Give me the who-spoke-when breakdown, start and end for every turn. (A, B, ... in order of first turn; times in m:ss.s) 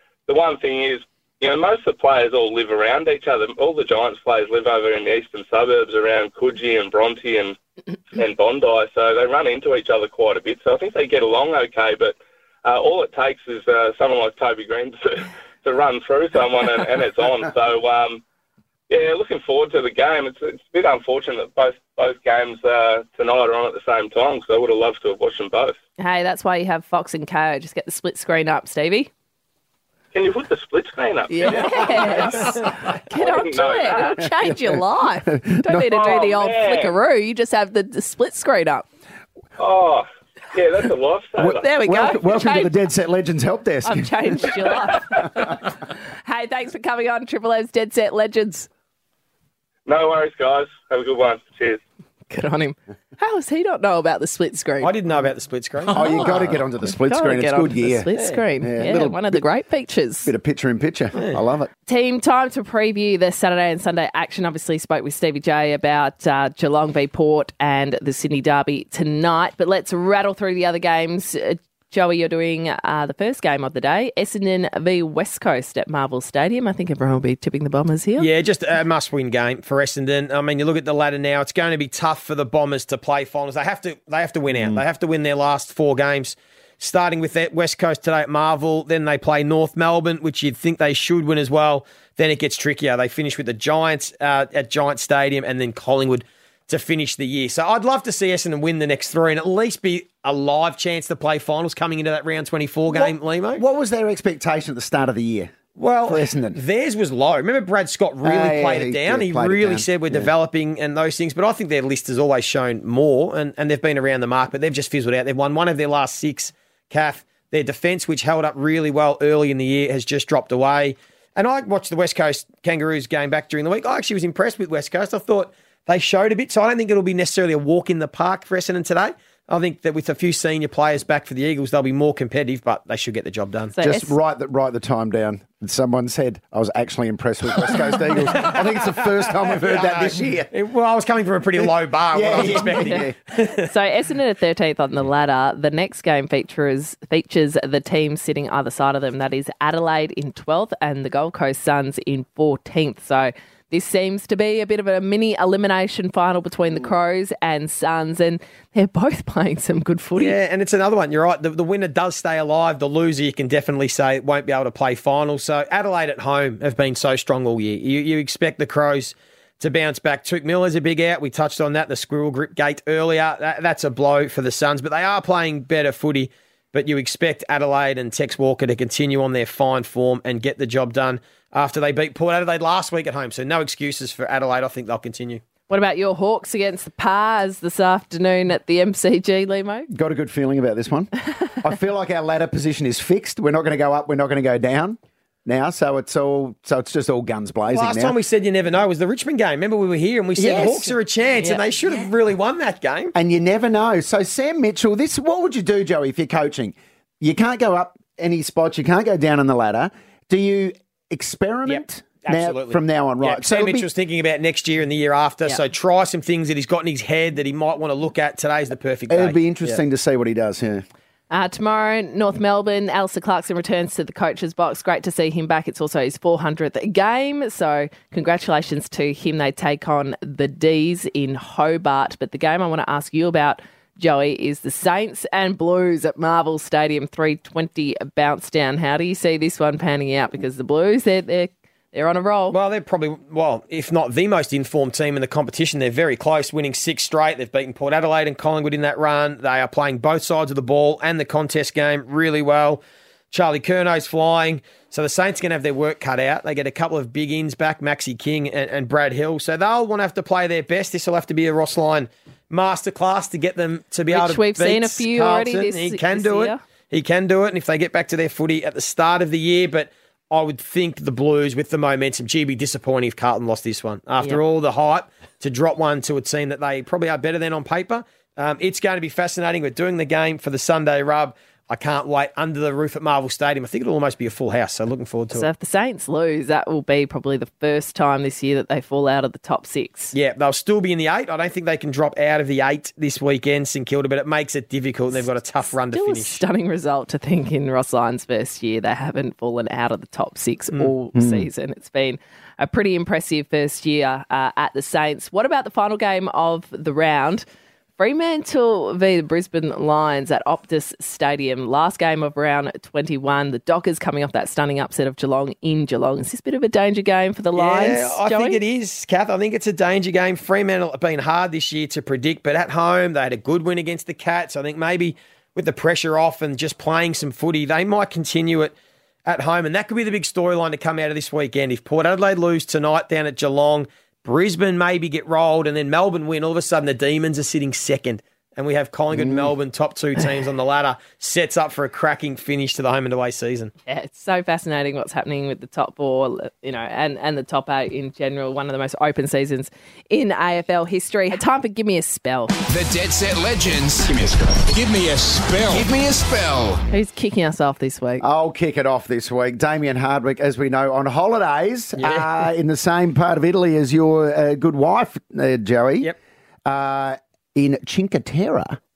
0:00.3-0:07.6 A
0:08.1-0:18.2 A
0:18.9-0:25.8 A
0:26.0-0:29.1 B
0:30.1-0:32.5 A
0:31.3-0:38.9 B
0:33.1-0:34.2 A
0:34.4-0:35.9 C
0:35.9-0:37.0 A
0:39.6-0:41.7 A
0:41.4-0:44.2 C
0:41.6-0:42.7 B
0:43.8-0:45.5 B
0:46.2-0:48.7 B
0:49.9-0:51.8 A
0:52.3-0:54.9 B
0:54.8-0:56.0 D
0:55.9-0:58.1 C
0:55.9-0:56.3 B
0:57.0-1:00.3 B
0:58.6-0:59.5 C
1:00.2-1:01.7 C
1:01.9-1:18.3 B
1:18.2-1:43.6 D
1:42.9-1:45.5 C
1:45.8-2:13.7 D
1:46.1-1:46.6 C
1:48.2-1:50.3 C
2:13.8-2:14.2 B
2:13.8-2:20.5 C
2:18.4-2:23.7 D
2:22.1-2:23.2 C
2:22.7-2:23.0 B
2:23.6-2:40.4 B
2:40.2-3:05.4 D
3:05.7-3:09.9 B
3:09.9-3:18.2 C
3:17.7-3:23.1 D
3:20.4-3:20.9 C
3:21.4-3:22.1 B
3:23.2-3:33.9 C
3:31.7-3:39.8 D
3:39.1-3:40.8 C
3:41.3-4:02.6 B
4:02.5-4:12.8 D
4:13.3-4:45.5 D
4:24.1-4:26.6 B
4:45.3-4:50.1 B
4:50.1-4:56.4 D
4:55.9-5:07.4 B
5:01.2-5:01.5 C
5:08.0-5:18.6 B
5:17.6-5:28.7 D
5:29.3-5:43.7 D
5:39.1-5:39.5 C
5:43.9-5:52.5 B
5:52.7-5:56.8 E
5:56.9-5:58.2 B
5:58.2-6:06.1 C
6:02.0-6:02.3 D
6:06.7-6:08.8 C